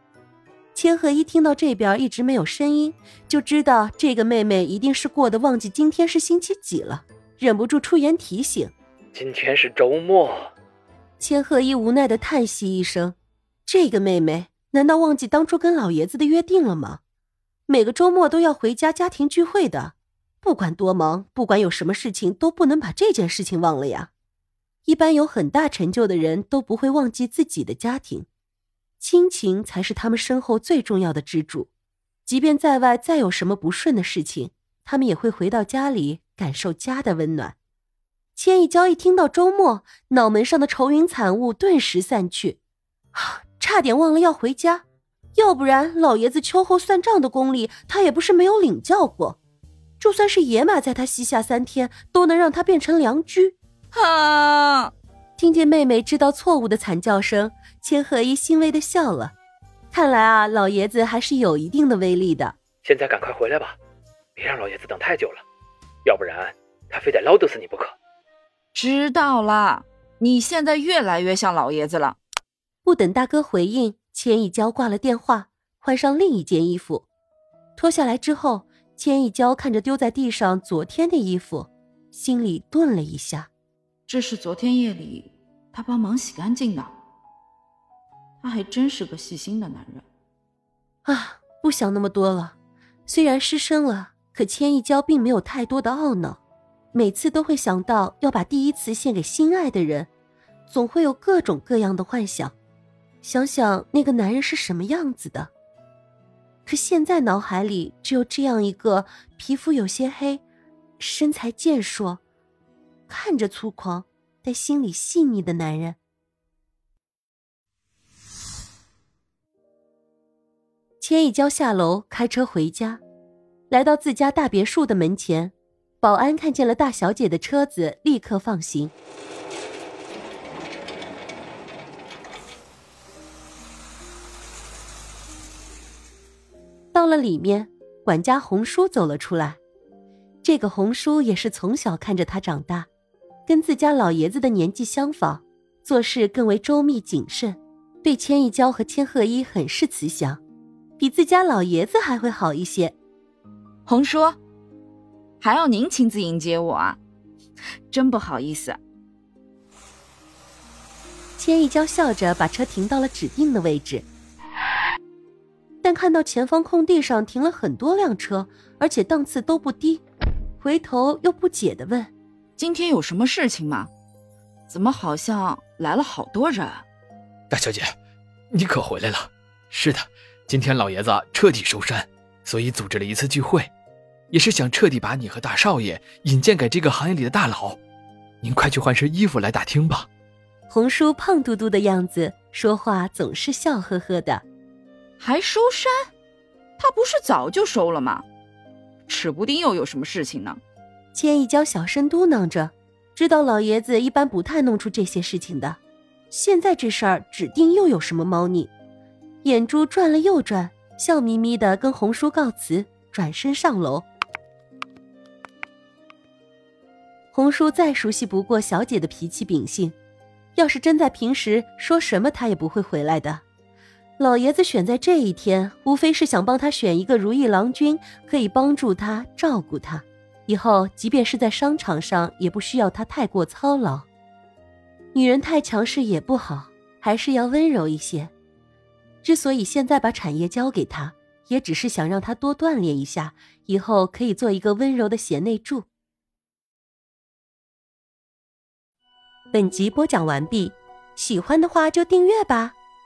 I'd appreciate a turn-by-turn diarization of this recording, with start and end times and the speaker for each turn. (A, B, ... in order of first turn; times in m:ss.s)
0:00.7-0:08.7 A
0:09.1-0:10.5 B
0:11.2-0:13.1 A
0:13.6-0:17.0 A
0:17.7-0:24.1 A
0:24.8-0:28.3 A
0:29.0-0:31.7 A
0:32.2-0:37.6 A
0:38.4-0:42.6 A
0:43.1-0:44.8 A
0:45.3-0:49.4 A
0:50.0-0:53.6 A
0:53.9-0:54.9 C
0:55.4-0:59.3 A
0:59.9-1:02.5 A
1:02.8-1:03.8 B
1:04.4-1:05.4 B
1:06.0-1:08.0 B
1:08.7-1:12.2 C
1:12.8-1:17.1 A
1:17.8-1:23.5 A
1:24.1-1:26.9 C
1:28.4-1:30.0 C
1:31.0-1:32.5 A
1:33.1-1:36.4 A
1:36.9-1:40.1 A
1:40.7-1:42.5 A
1:43.2-1:45.5 A
1:46.6-1:50.4 A
1:51.0-1:52.2 A
1:53.1-1:56.0 A
2:01.0-2:03.0 A
2:03.7-2:08.9 A
2:16.9-2:19.6 A
2:20.4-2:22.9 A
2:23.5-2:30.4 A
2:31.0-2:33.0 A
2:33.8-2:34.4 C
2:35.4-2:37.0 C
2:37.9-2:38.8 C
2:41.4-2:44.1 A
2:45.8-2:50.0 A
2:50.6-2:52.1 A
2:52.6-2:53.9 C
2:54.7-2:56.8 C
2:57.5-2:57.9 B
2:58.5-3:03.7 B
3:04.3-3:07.8 B
3:08.4-3:10.1 B
3:10.7-3:14.4 A
3:15.2-3:16.1 C
3:16.8-3:18.2 C
3:19.1-3:20.6 C
3:21.1-3:25.8 A
3:26.3-3:28.7 A
3:29.4-3:34.0 A
3:37.3-3:39.9 A
3:40.6-3:43.4 A
3:44.2-3:54.0 A
3:55.1-3:58.3 A
3:59.2-4:05.8 A
4:09.5-4:12.8 A